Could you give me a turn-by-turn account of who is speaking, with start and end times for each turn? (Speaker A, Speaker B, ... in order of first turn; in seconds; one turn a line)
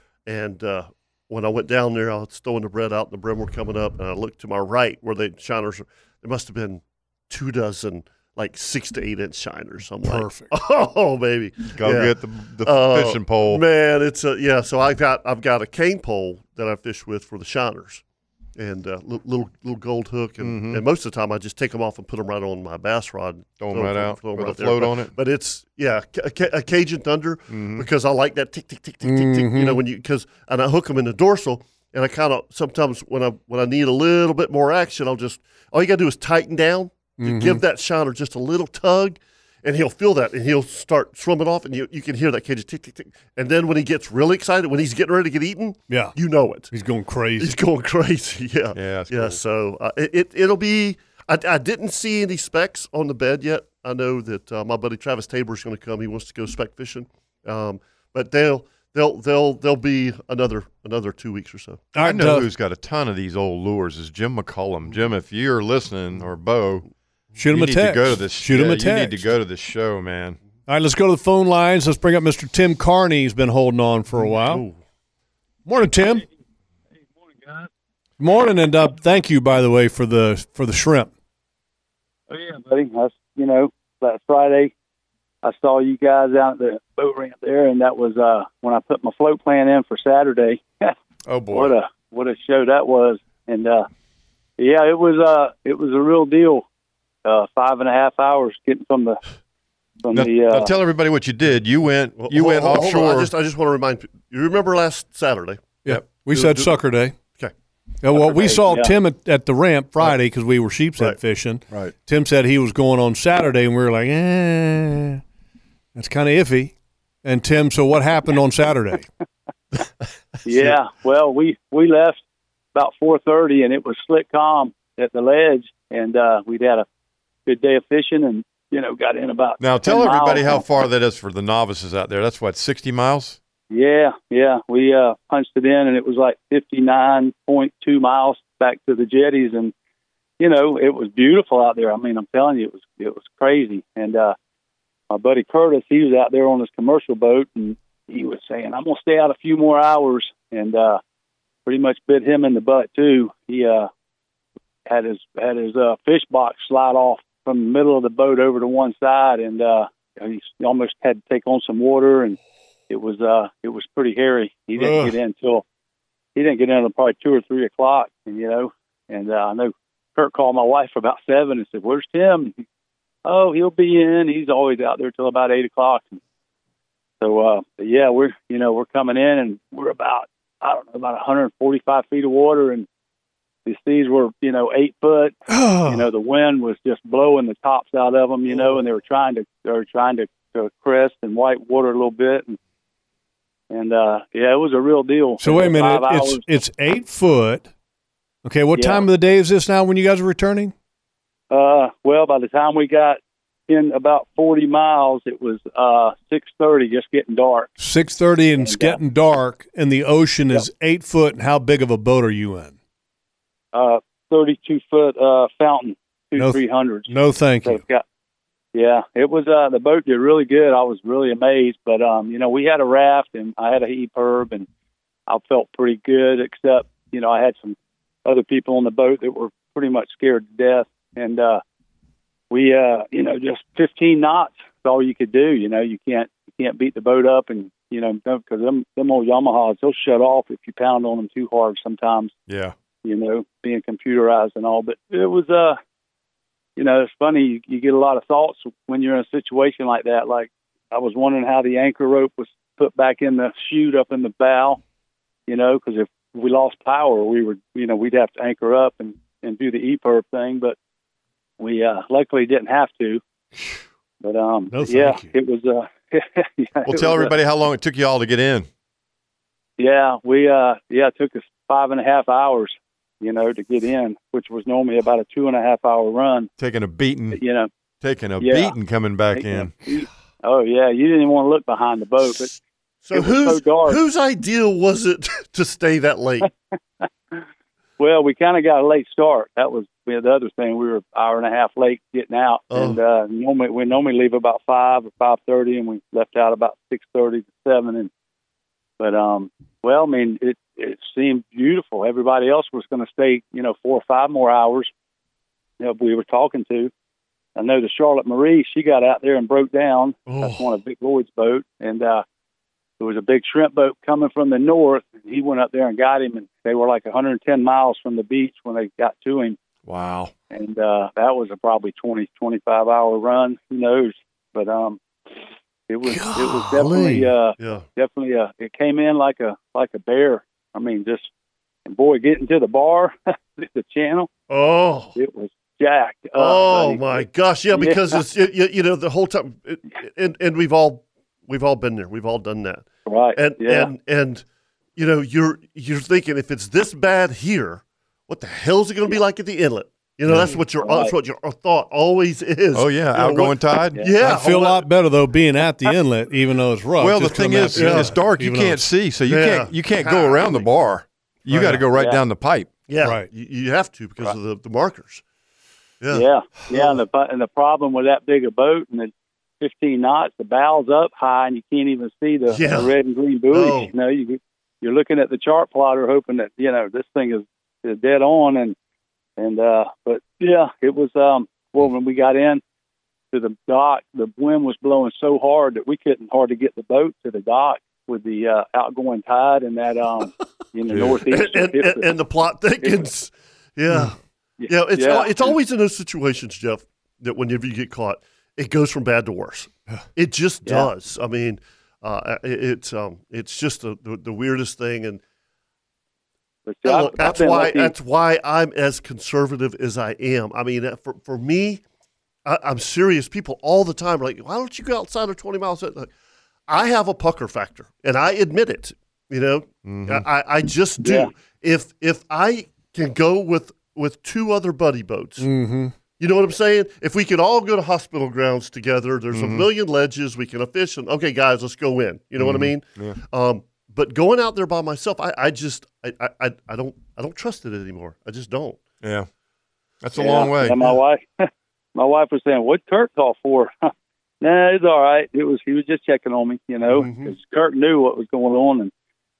Speaker A: 0.3-18.0
Speaker B: 10.0-10.5
Speaker C: 11.7-13.6
Speaker A: 18.6-46.7
Speaker C: 20.4-20.8
Speaker C: 23.6-25.1
Speaker C: 27.5-27.9
Speaker B: 29.0-29.8
Speaker B: 37.2-37.6
Speaker B: 45.9-46.1
Speaker B: 46.7-47.6
Speaker A: 47.4-61.9
Speaker C: 48.7-49.4
Speaker B: 61.9-62.5
Speaker C: 62.0-66.9
Speaker B: 67.4-69.2
Speaker C: 67.5-70.4
Speaker B: 70.7-74.6
Speaker A: 74.2-74.8
Speaker B: 75.7-76.2
Speaker B: 78.2-81.1
Speaker D: 82.3-84.7
Speaker D: 85.4-90.9
Speaker C: 91.3-91.7
Speaker D: 91.5-93.9
Speaker D: 94.6-96.6
Speaker D: 97.2-99.2
Speaker D: 100.0-100.7
Speaker C: 100.1-103.3
Speaker A: 102.2-105.7
Speaker B: 105.8-107.2
Speaker A: 106.3-106.8
Speaker B: 108.0-115.2
Speaker D: 108.1-108.9
Speaker B: 115.9-119.1
Speaker D: 120.4-122.2
Speaker D: 122.7-126.9
Speaker D: 127.5-130.7
Speaker C: 129.6-133.4
Speaker D: 133.7-139.7
Speaker D: 140.4-144.3
Speaker D: 145.1-151.0
Speaker D: 151.7-153.9
Speaker D: 154.9-162.4
Speaker D: 162.9-165.6
Speaker B: 164.8-165.1
Speaker D: 166.4-172.5
Speaker D: 173.2-176.2
Speaker D: 177.2-182.9
Speaker D: 183.7-192.6
Speaker B: 185.5-186.1
Speaker A: 188.5-188.8
Speaker D: 193.7-196.4
Speaker B: 195.4-197.7
Speaker B: 198.4-200.7
Speaker D: 198.7-199.1
Speaker D: 201.5-207.7
Speaker B: 207.8-212.7
Speaker D: 208.6-209.0
Speaker D: 213.7-218.0
Speaker B: 216.4-217.8
Speaker D: 218.7-224.7
Speaker D: 225.3-231.6
Speaker D: 232.5-242.3
Speaker C: 242.5-242.7
Speaker D: 243.0-245.8
Speaker D: 246.8-254.8
Speaker D: 255.5-260.8
Speaker D: 261.6-263.2
Speaker D: 264.2-267.4
Speaker B: 264.7-265.3
Speaker C: 266.9-268.7
Speaker D: 269.8-276.5
Speaker C: 276.6-277.4
Speaker D: 277.3-277.7
Speaker C: 278.0-279.8
Speaker D: 278.4-278.8
Speaker D: 279.3-282.5
Speaker A: 282.2-286.5
Speaker D: 283.1-284.0
Speaker D: 287.0-287.4
Speaker D: 288.0-298.1
Speaker A: 292.7-293.0
Speaker D: 299.0-304.9
Speaker D: 305.8-306.9
Speaker D: 307.6-312.2
Speaker A: 310.3-310.7
Speaker D: 313.0-319.6
Speaker C: 319.9-320.3
Speaker D: 320.5-325.0
Speaker D: 325.9-331.3
Speaker B: 326.1-327.3
Speaker A: 327.6-327.8
Speaker D: 331.9-334.3
Speaker A: 334.5-335.1
Speaker D: 335.1-338.2
Speaker A: 336.4-344.4
Speaker D: 343.1-343.9
Speaker A: 344.9-354.9
Speaker D: 350.7-351.1
Speaker C: 352.7-354.0
Speaker B: 354.2-358.9
Speaker C: 357.0-362.7
Speaker A: 357.7-358.1
Speaker A: 359.3-360.7
Speaker B: 361.5-361.8
Speaker D: 361.9-362.2
Speaker A: 362.9-365.2
Speaker B: 363.0-363.3
Speaker A: 366.0-367.0
Speaker D: 366.1-378.7
Speaker A: 372.5-372.9
Speaker A: 373.5-373.9
Speaker D: 379.4-382.6
Speaker D: 383.3-392.1
Speaker A: 391.2-394.2
Speaker D: 392.8-393.1
Speaker D: 394.6-395.6
Speaker A: 394.7-405.2
Speaker D: 400.6-400.9
Speaker D: 406.6-407.9
Speaker A: 406.9-411.8
Speaker A: 412.4-416.1
Speaker A: 416.7-425.5
Speaker C: 419.8-420.3
Speaker D: 421.0-421.3
Speaker B: 425.4-425.9
Speaker A: 426.2-438.8
Speaker C: 429.3-429.7
Speaker C: 432.4-433.2
Speaker C: 439.0-439.3
Speaker C: 440.0-440.8
Speaker D: 440.2-448.9
Speaker A: 446.9-447.3